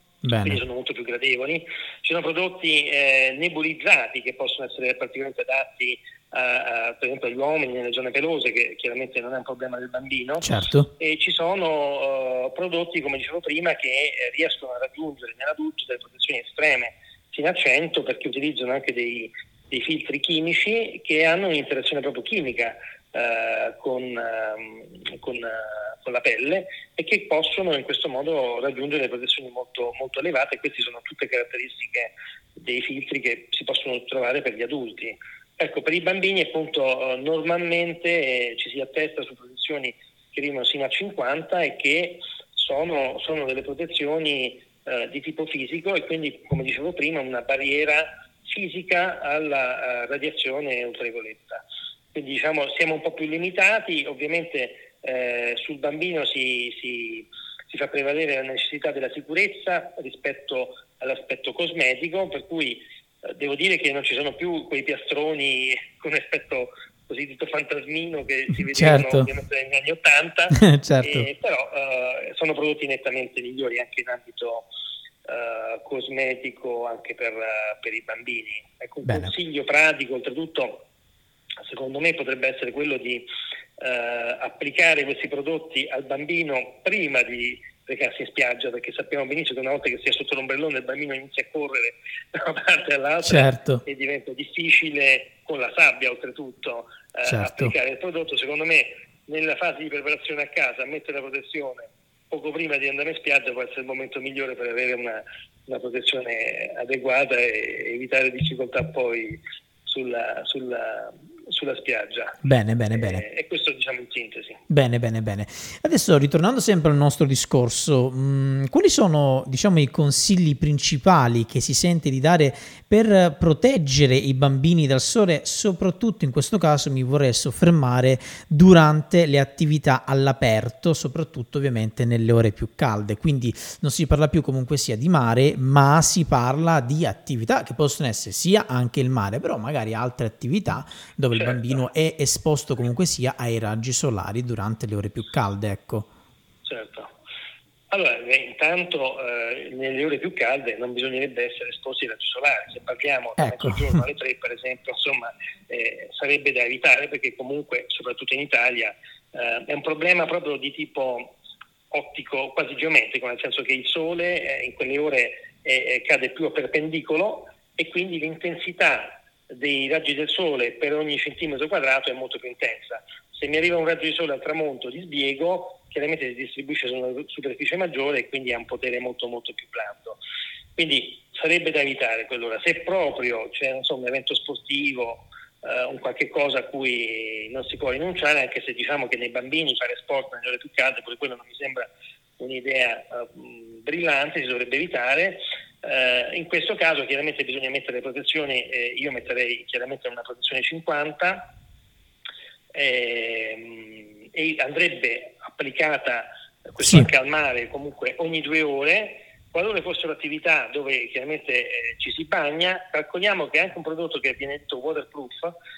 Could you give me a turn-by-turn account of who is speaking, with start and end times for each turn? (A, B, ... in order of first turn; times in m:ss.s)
0:00.2-0:00.6 A
0:00.4-1:14.7 B
0:10.4-0:10.9 A
1:08.7-1:09.3 A
1:10.5-1:11.3 A
1:15.3-1:20.9 B
1:19.0-1:19.3 A
1:21.7-1:23.3 B
1:23.8-1:54.6 B
1:33.2-1:33.8 A
1:37.2-1:37.7 A
1:52.4-1:53.2 A
1:54.7-2:26.1 A
2:21.3-2:21.8 B
2:26.7-2:27.1 B
2:27.9-2:41.4 B
2:33.4-2:34.0 A
2:41.9-3:00.2 B
3:00.8-3:21.5 B
3:22.7-3:35.6 B
3:26.8-3:27.1 A